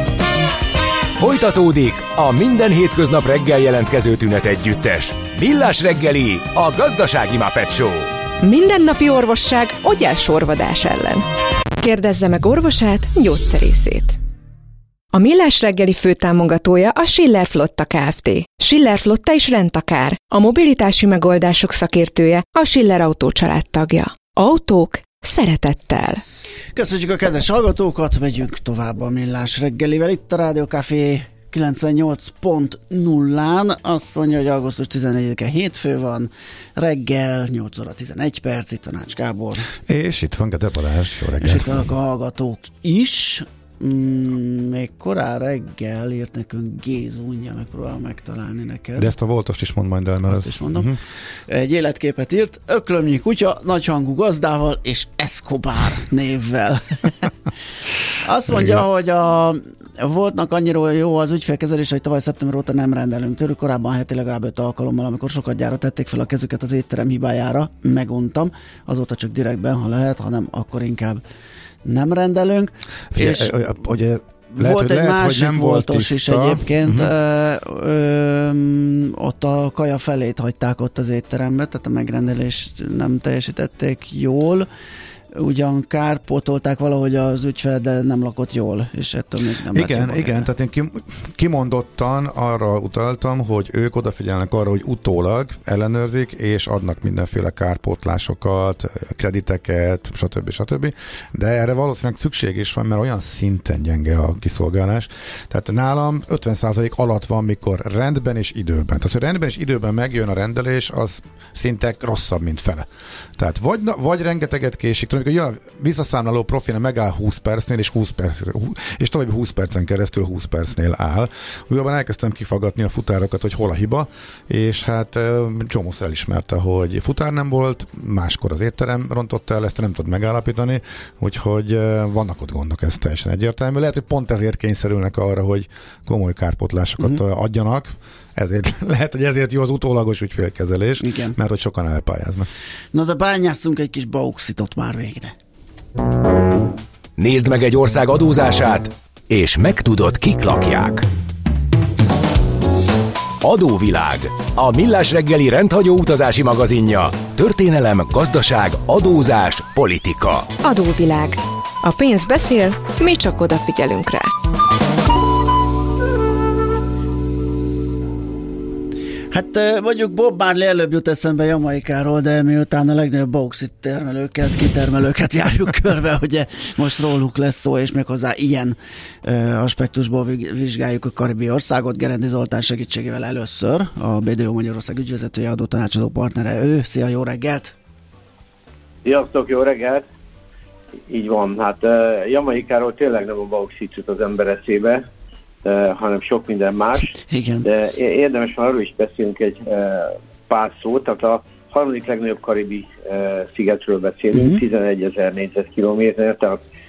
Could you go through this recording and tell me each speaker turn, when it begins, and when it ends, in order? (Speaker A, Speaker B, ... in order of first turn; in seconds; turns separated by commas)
Speaker A: 1.2-8.1, Speaker B: 8.4-11.3, Speaker B: 11.8-14.2, Speaker B: 15.1-26.2, Speaker C: 26.7-39.7, Speaker D: 39.9-41.9, Speaker C: 41.4-49.1, Speaker D: 49.0-51.0, Speaker C: 50.3-57.3, Speaker C: 58.2-71.2, Speaker C: 71.8-73.5, Speaker D: 73.1-77.1, Speaker C: 74.6-84.7, Speaker C: 85.3-90.5, Speaker D: 89.7-142.5, Speaker C: 141.0-141.4, Speaker C: 142.9-145.3, Speaker A: 147.2-151.1, Speaker A: 153.4-160.5, Speaker B: 160.6-164.3, Speaker C: 169.3-187.7, Speaker E: 189.1-190.1, Speaker E: 191.1-195.1, Speaker E: 195.6-206.6, Speaker C: 197.3-197.7, Speaker C: 204.3-204.6